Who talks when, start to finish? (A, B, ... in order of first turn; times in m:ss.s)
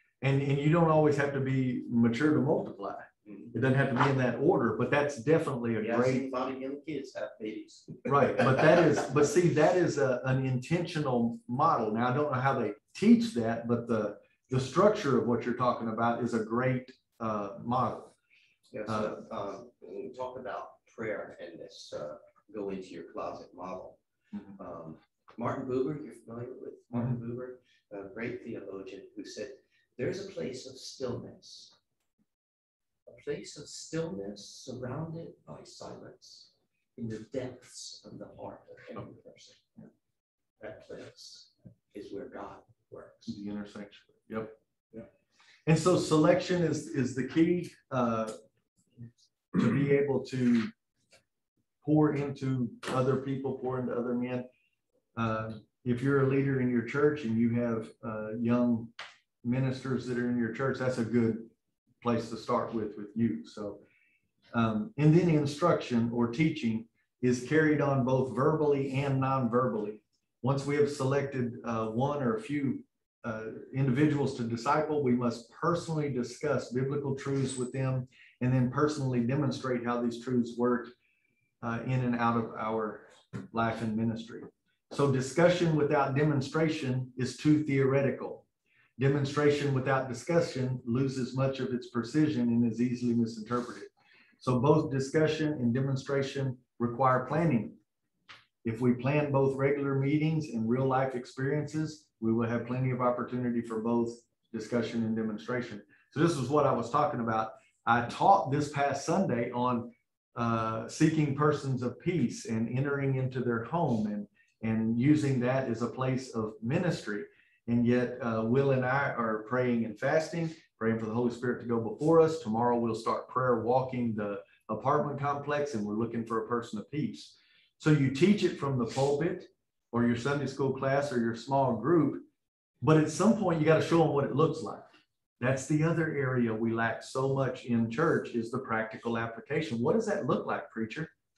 0:00.2-0:06.2 A
0:03.2-0:03.5 B
0:05.8-0:08.9 B
0:08.0-0:18.1 A
0:18.7-0:24.0 B
0:18.9-0:19.2 A
0:24.6-0:31.7 B
0:33.1-0:39.6 B
0:40.6-0:43.3 B
0:43.2-0:44.5 A
0:45.7-0:48.3 A
0:49.5-0:50.7 A
0:51.8-0:54.5 A
0:55.2-0:58.9 A
0:59.4-1:01.5 A
1:02.0-1:03.8 A
1:04.5-1:20.9 A
1:21.6-1:28.4 A
1:29.0-1:37.8 A
1:38.6-2:12.2 A
2:12.8-2:14.9 A
2:15.4-2:21.1 A